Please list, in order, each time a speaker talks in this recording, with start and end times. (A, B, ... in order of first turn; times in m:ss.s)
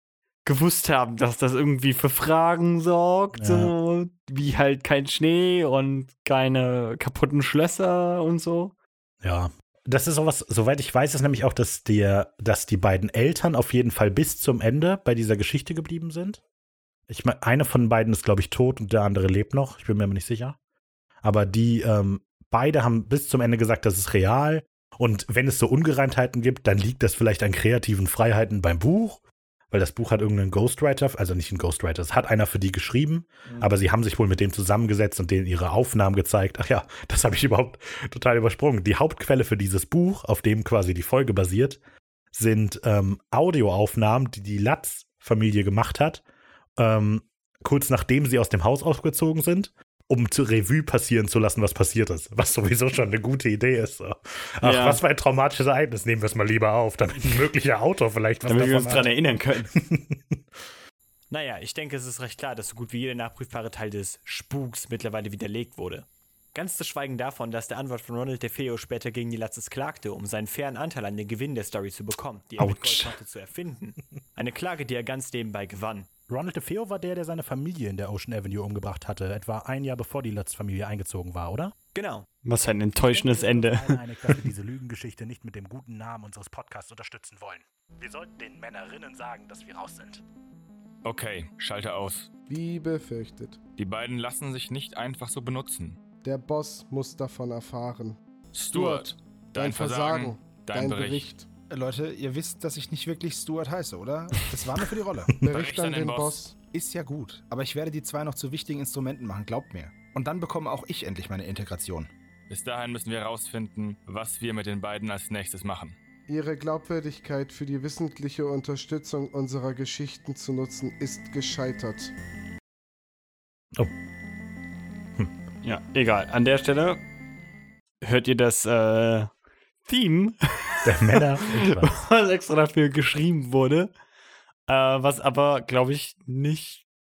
0:00.4-0:08.7 A
0:03.3-0:03.7 B
0:09.2-0:16.4 B
0:17.1-0:20.6 B
0:21.2-0:41.8 B
0:42.3-0:46.2 B
0:46.8-0:59.1 B
0:54.6-0:55.0 A
0:58.5-0:59.7 A
0:59.7-1:00.4 B
1:01.3-1:16.1 C
1:12.6-1:13.0 A
1:16.3-1:21.7 B
1:21.9-1:22.3 C
1:22.4-1:24.0 A
1:23.0-1:30.2 B
1:31.0-1:32.3 D
1:32.5-1:33.6 E
1:33.8-1:36.0 D
1:36.2-1:38.2 E
1:38.5-1:41.3 D
1:38.7-1:41.5 E
1:41.7-1:45.4 F
1:45.4-1:46.6 E
1:45.5-1:46.4 D
1:46.7-1:52.1 F
1:52.5-1:55.9 D
1:56.3-2:02.1 E
2:05.6-2:07.0 A
2:08.0-2:09.3 A
2:09.9-2:13.9 A
2:10.8-2:12.0 B
2:14.7-2:16.8 A